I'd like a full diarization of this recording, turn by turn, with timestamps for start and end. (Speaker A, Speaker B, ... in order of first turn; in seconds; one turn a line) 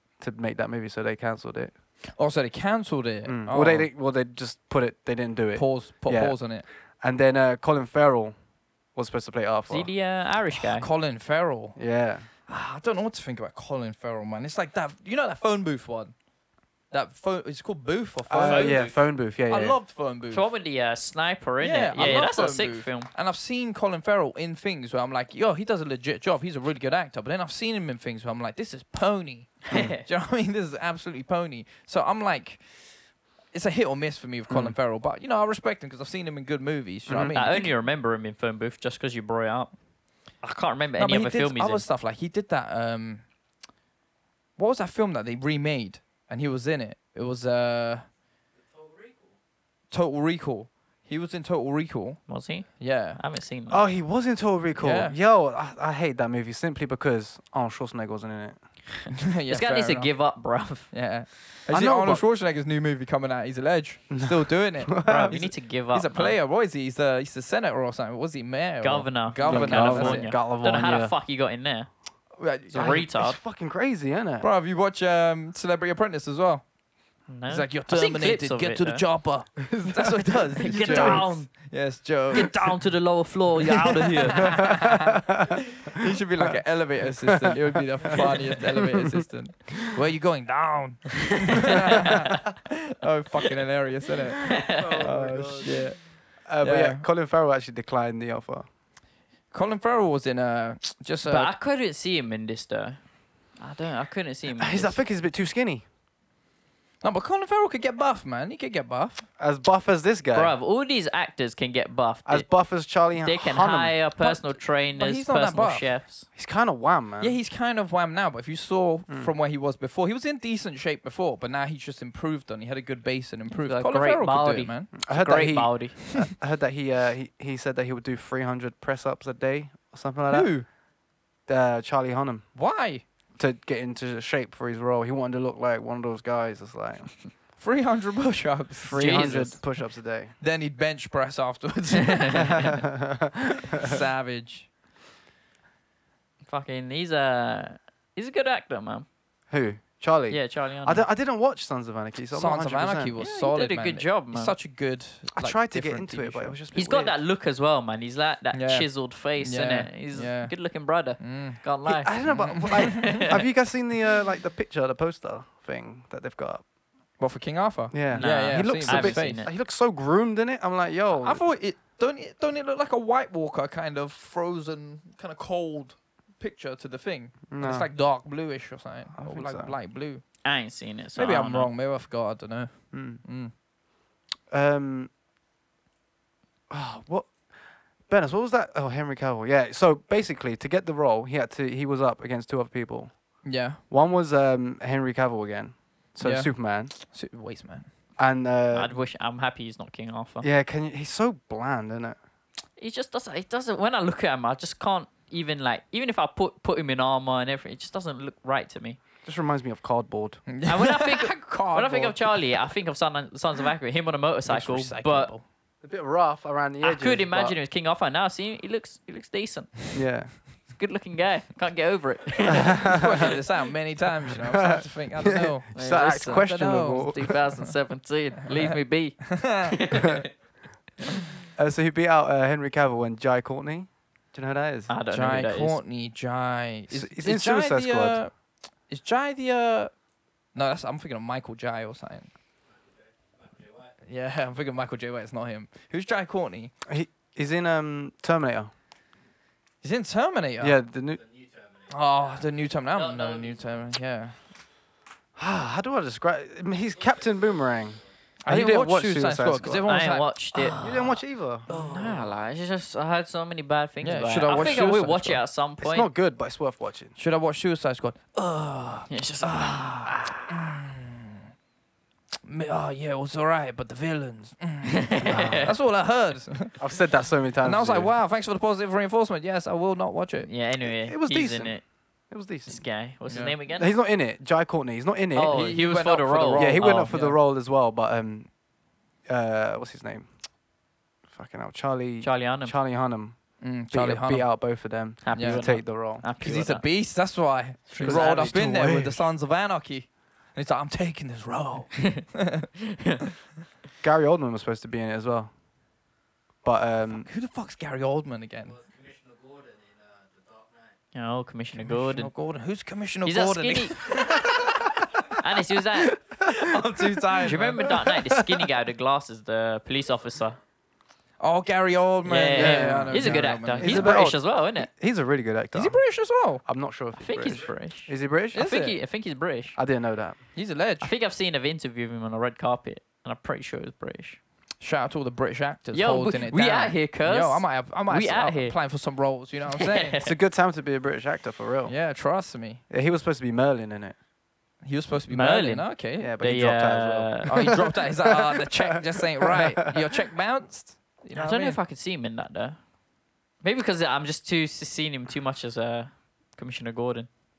Speaker A: 0.2-1.7
Speaker B: 2.1-3.9
Speaker A: 3.2-8.3
Speaker B: 5.5-6.7
Speaker A: 8.9-9.9
Speaker C: 9.7-10.9
Speaker B: 10.5-11.8
Speaker A: 11.8-12.3
Speaker B: 12.5-16.1
Speaker B: 16.9-20.5
Speaker A: 18.3-19.8
Speaker C: 18.5-18.9
Speaker C: 20.3-23.1
Speaker B: 21.6-32.9
Speaker C: 29.7-30.1
Speaker B: 33.5-37.7
Speaker A: 34.5-34.8
Speaker A: 37.1-37.5
Speaker C: 37.3-39.7
Speaker C: 40.4-41.8
Speaker B: 41.0-43.2
Speaker B: 44.6-48.1
Speaker B: 49.9-52.2
Speaker C: 52.3-53.9
Speaker B: 52.8-53.2
Speaker A: 53.7-58.6
Speaker B: 54.8-55.2
Speaker B: 59.1-60.1
Speaker C: 59.5-60.9
Speaker B: 60.9-70.3
Speaker A: 61.7-62.2
Speaker A: 64.1-65.4
Speaker C: 65.0-66.4
Speaker C: 68.8-71.9
Speaker A: 69.5-71.1
Speaker B: 72.4-73.0
Speaker A: 72.7-74.5
Speaker C: 72.7-73.4
Speaker B: 74.4-76.7
Speaker C: 77.3-79.0
Speaker B: 77.5-82.9
Speaker A: 79.7-81.3
Speaker C: 80.6-81.7
Speaker C: 82.3-84.7
Speaker B: 83.7-85.2
Speaker A: 84.5-86.5
Speaker B: 85.8-97.0
Speaker A: 87.2-89.3
Speaker C: 91.7-92.2
Speaker C: 94.4-95.1
Speaker A: 94.8-95.8
Speaker A: 96.4-98.7
Speaker B: 99.5-101.5
Speaker C: 101.2-103.0
Speaker C: 103.6-105.0
Speaker A: 104.5-105.8
Speaker B: 107.0-109.3
Speaker A: 109.4-110.5
Speaker C: 110.3-112.5
Speaker A: 112.3-114.0
Speaker C: 113.2-116.3
Speaker B: 114.2-115.9
Speaker A: 116.3-117.4
Speaker B: 117.2-125.0
Speaker C: 123.5-126.0
Speaker A: 125.0-130.6
Speaker B: 130.3-130.7
Speaker A: 131.5-132.5
Speaker B: 132.6-133.0
Speaker A: 133.4-137.2
Speaker B: 137.6-139.7
Speaker A: 138.8-140.3
Speaker C: 138.9-139.6
Speaker B: 140.4-142.8
Speaker C: 142.1-142.6
Speaker A: 142.6-143.9
Speaker B: 143.8-144.7
Speaker C: 146.4-149.1
Speaker A: 149.5-153.2
Speaker C: 150.3-151.1
Speaker B: 152.3-156.6
Speaker C: 153.2-154.5
Speaker A: 155.3-157.1
Speaker C: 156.7-163.4
Speaker B: 158.5-161.6
Speaker A: 161.8-166.6
Speaker B: 162.2-163.2
Speaker B: 167.2-169.4
Speaker A: 167.9-171.4
Speaker C: 168.1-169.5
Speaker B: 171.2-180.2
Speaker A: 177.5-177.9
Speaker A: 179.2-179.7
Speaker C: 180.4-181.7
Speaker B: 181.2-183.5
Speaker A: 182.9-183.2
Speaker A: 184.5-185.1
Speaker A: 186.7-187.5
Speaker A: 188.1-196.9
Speaker B: 193.4-193.8
Speaker B: 196.2-197.9
Speaker A: 198.2-198.9
Speaker C: 198.7-200.5
Speaker A: 200.4-202.2
Speaker C: 202.8-209.0
Speaker A: 209.2-210.5
Speaker B: 210.5-212.6
Speaker C: 210.7-215.3
Speaker B: 214.5-215.4
Speaker A: 215.8-217.6
Speaker C: 216.8-223.0
Speaker A: 219.9-220.4
Speaker A: 222.5-223.3
Speaker B: 222.9-227.4
Speaker A: 224.3-227.3
Speaker C: 225.8-230.2
Speaker B: 228.6-230.0
Speaker A: 231.6-234.9
Speaker C: 234.9-235.8
Speaker B: 235.1-238.3
Speaker A: 236.9-238.2
Speaker B: 238.9-239.9
Speaker B: 240.5-242.3
Speaker B: 244.1-246.7
Speaker A: 246.9-248.7
Speaker B: 249.8-250.8
Speaker A: 250.6-251.2
Speaker B: 251.9-254.4
Speaker C: 253.1-253.4
Speaker A: 255.4-259.9
Speaker B: 258.4-260.8
Speaker C: 259.9-261.2
Speaker A: 260.8-261.7
Speaker B: 261.7-262.3
Speaker C: 261.7-266.1
Speaker B: 264.0-265.4
Speaker A: 265.8-267.1
Speaker B: 267.2-271.4
Speaker C: 269.1-270.3
Speaker B: 272.4-276.9
Speaker C: 274.9-275.7
Speaker A: 275.3-275.7
Speaker A: 276.8-278.1
Speaker B: 277.6-280.5
Speaker C: 280.4-281.8
Speaker A: 280.8-282.8
Speaker C: 282.7-283.9
Speaker B: 283.3-283.5
Speaker A: 283.7-285.8
Speaker C: 285.3-287.1
Speaker B: 285.5-287.4
Speaker A: 286.6-288.5
Speaker A: 289.3-290.3
Speaker A: 291.3-296.2
Speaker C: 292.2-292.8
Speaker B: 293.6-302.7
Speaker C: 295.2-296.9
Speaker C: 297.9-298.6
Speaker A: 298.0-299.2
Speaker A: 304.0-305.5
Speaker A: 306.6-307.3
Speaker B: 307.2-308.8
Speaker C: 311.1-312.3
Speaker B: 311.8-314.9
Speaker C: 313.2-314.1
Speaker C: 315.4-316.1
Speaker A: 316.2-317.4
Speaker B: 316.5-317.9
Speaker C: 317.4-320.6
Speaker A: 317.9-318.7
Speaker B: 321.4-324.2
Speaker C: 322.2-324.9
Speaker A: 322.5-326.1
Speaker B: 325.7-326.6
Speaker A: 326.6-328.6
Speaker C: 327.2-329.8
Speaker B: 328.5-329.0
Speaker A: 329.8-330.4
Speaker B: 330.6-331.1
Speaker C: 331.0-334.4
Speaker B: 334.8-340.2
Speaker C: 335.9-338.8
Speaker C: 339.8-340.4
Speaker A: 340.2-341.9
Speaker B: 341.9-342.8
Speaker A: 342.9-344.2
Speaker B: 344.8-346.3
Speaker C: 345.3-347.7
Speaker A: 346.2-350.1
Speaker B: 347.5-351.8
Speaker C: 351.3-352.8
Speaker C: 353.6-357.3